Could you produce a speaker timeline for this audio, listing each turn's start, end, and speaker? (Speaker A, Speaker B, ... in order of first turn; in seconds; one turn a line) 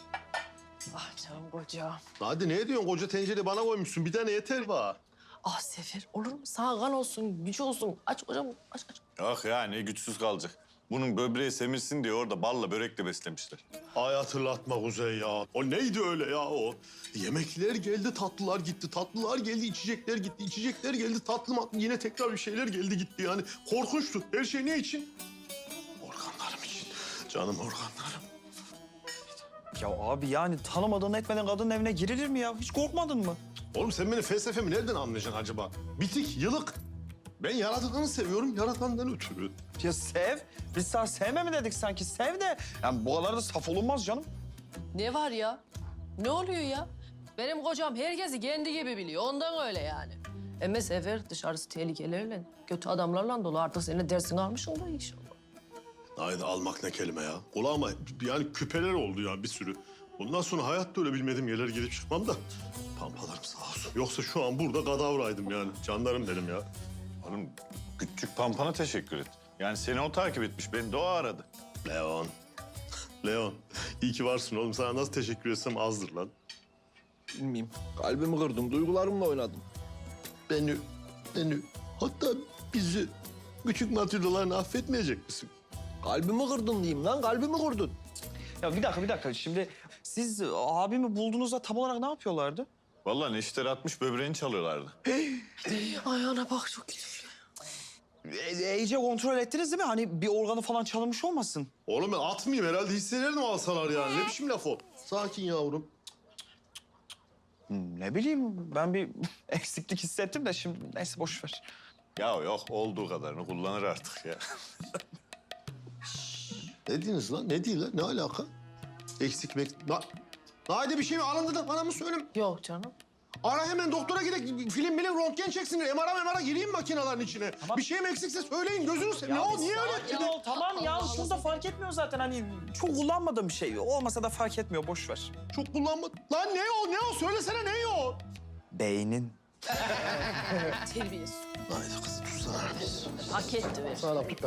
Speaker A: 0.9-2.0
Speaker B: 2.2-5.0
Speaker A: 5.4-9.0
Speaker C: 9.2-13.6
Speaker B: 13.9-25.1
Speaker B: 26.0-28.3
Speaker D: 29.8-33.4
Speaker B: 33.7-36.8
Speaker B: 37.4-39.6
Speaker D: 39.8-44.3
Speaker A: 44.9-45.6
Speaker A: 46.2-55.4
Speaker B: 56.2-62.4
Speaker B: 63.0-66.7
Speaker C: 67.2-71.5
Speaker B: 71.8-72.3
Speaker B: 73.2-76.3
Speaker E: 77.3-79.6
Speaker B: 80.5-83.1
Speaker B: 83.6-85.5
Speaker E: 86.0-88.0
Speaker D: 88.6-92.7
Speaker C: 93.0-94.9
Speaker A: 95.6-97.3
Speaker D: 98.3-101.7
Speaker B: 101.9-105.9
Speaker D: 107.7-111.6
Speaker C: 112.2-114.4
Speaker B: 116.9-118.5
Speaker B: 119.2-120.1
Speaker B: 120.7-122.3
Speaker A: 122.3-123.0
Speaker B: 123.4-130.3
Speaker D: 129.2-135.3
Speaker A: 130.6-131.4
Speaker B: 135.5-138.2
Speaker D: 138.7-139.4
Speaker A: 139.8-141.4
Speaker B: 141.7-143.0
Speaker A: 143.1-144.3